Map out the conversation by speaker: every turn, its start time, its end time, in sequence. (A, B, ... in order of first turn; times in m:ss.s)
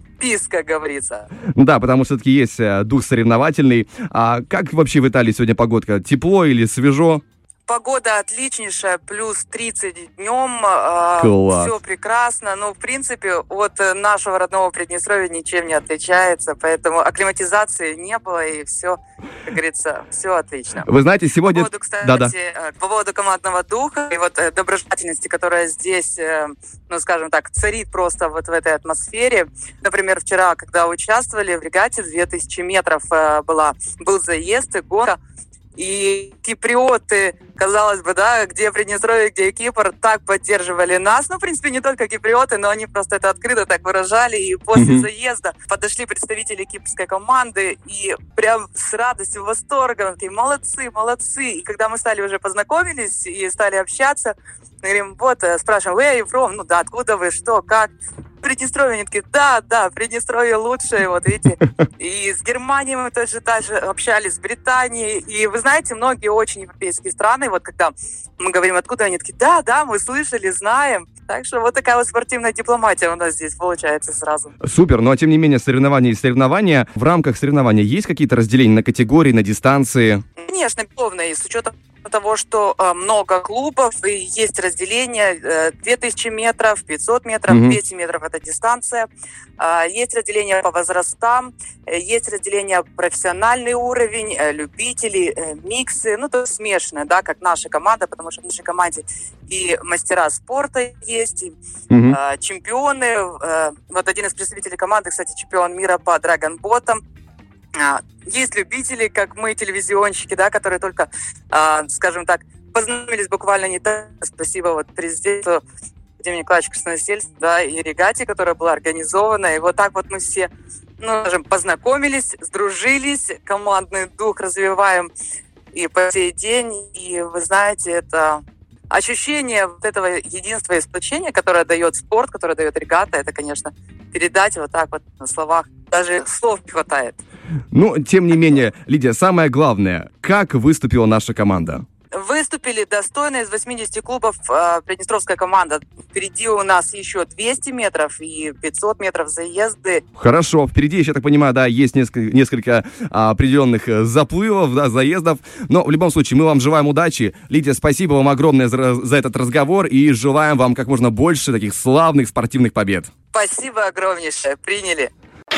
0:00.2-0:01.3 A
0:01.6-0:07.2 B
0:07.7-0:20.9 A
0:11.2-0:11.7 B
0:20.8-0:22.3 B
0:21.4-0:35.2 A
0:35.8-1:14.5 A
0:44.8-0:45.1 B
1:14.6-1:20.2 B
1:20.4-1:41.5 A
1:27.5-1:27.8 B
1:41.9-1:42.2 B
1:42.1-1:47.0 A
1:47.8-1:55.6 A
1:56.2-2:05.1 A
2:05.7-2:17.2 A
2:17.7-2:21.8 B
2:22.1-2:30.0 A
2:30.2-2:43.1 B
2:43.3-2:45.1 A